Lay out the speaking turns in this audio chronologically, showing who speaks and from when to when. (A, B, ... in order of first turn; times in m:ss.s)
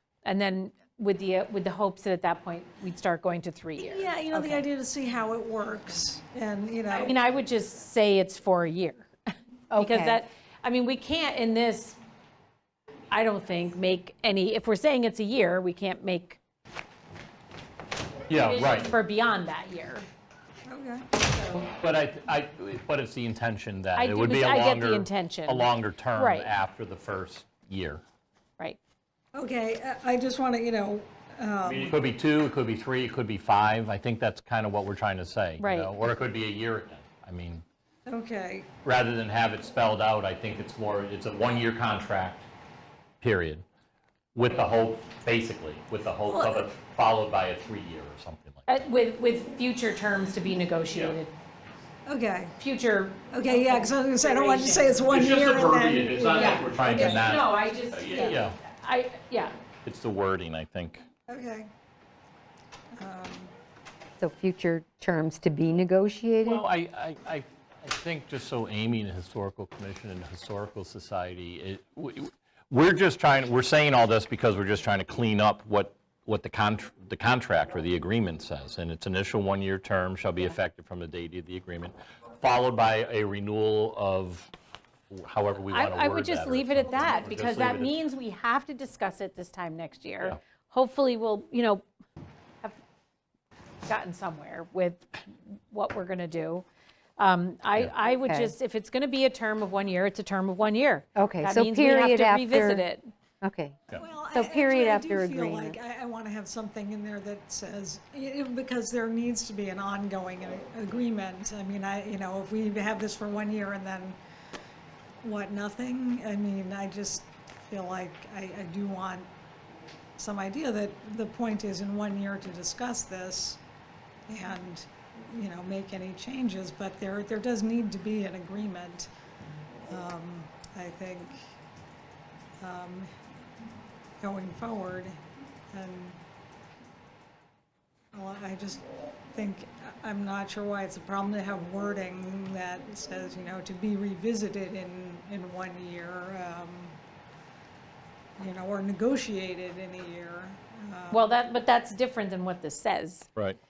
0:00.2-0:04.6 A
0:03.8-0:07.1 B
0:06.9-0:09.1 A
0:09.7-0:10.2 C
0:09.7-0:12.0 A
0:13.1-0:16.4 A
0:18.3-0:18.9 D
0:18.3-0:20.0 A
0:20.6-0:21.1 B
0:21.2-0:21.7 A
0:21.8-0:28.0 D
0:23.9-0:26.5 A
0:29.3-0:32.0 B
0:31.6-0:37.6 D
0:35.6-0:35.9 A
0:38.0-0:38.7 B
0:38.8-0:42.4 D
0:43.2-0:43.6 D
0:44.3-0:48.7 D
0:46.3-0:46.7 B
0:48.7-0:51.3 A
0:50.9-0:51.2 D
0:52.0-0:52.5 B
0:52.6-0:55.0 A
0:53.3-0:57.3 B
0:55.1-0:58.6 D
0:56.3-0:59.6 A
0:59.8-1:01.0 D
1:01.3-1:01.7 B
1:02.9-1:03.5 B
1:04.2-1:06.6 C
1:06.4-1:24.5 D
1:25.1-1:27.9 D
1:25.7-1:31.8 A
1:33.8-1:36.6 A
1:37.2-1:43.1 A
1:38.2-1:38.5 C
1:41.2-1:42.9 C
1:43.4-1:43.8 C
1:44.0-1:54.2 B
1:44.3-1:45.8 C
1:55.2-1:59.3 B
2:00.2-2:03.6 B
2:04.3-2:09.1 B
2:09.9-2:11.4 B
2:12.6-2:13.1 B
2:14.2-2:15.2 B
2:15.7-2:16.2 B
2:18.1-2:27.0 B
2:28.4-2:31.3 B
2:31.1-2:33.3 A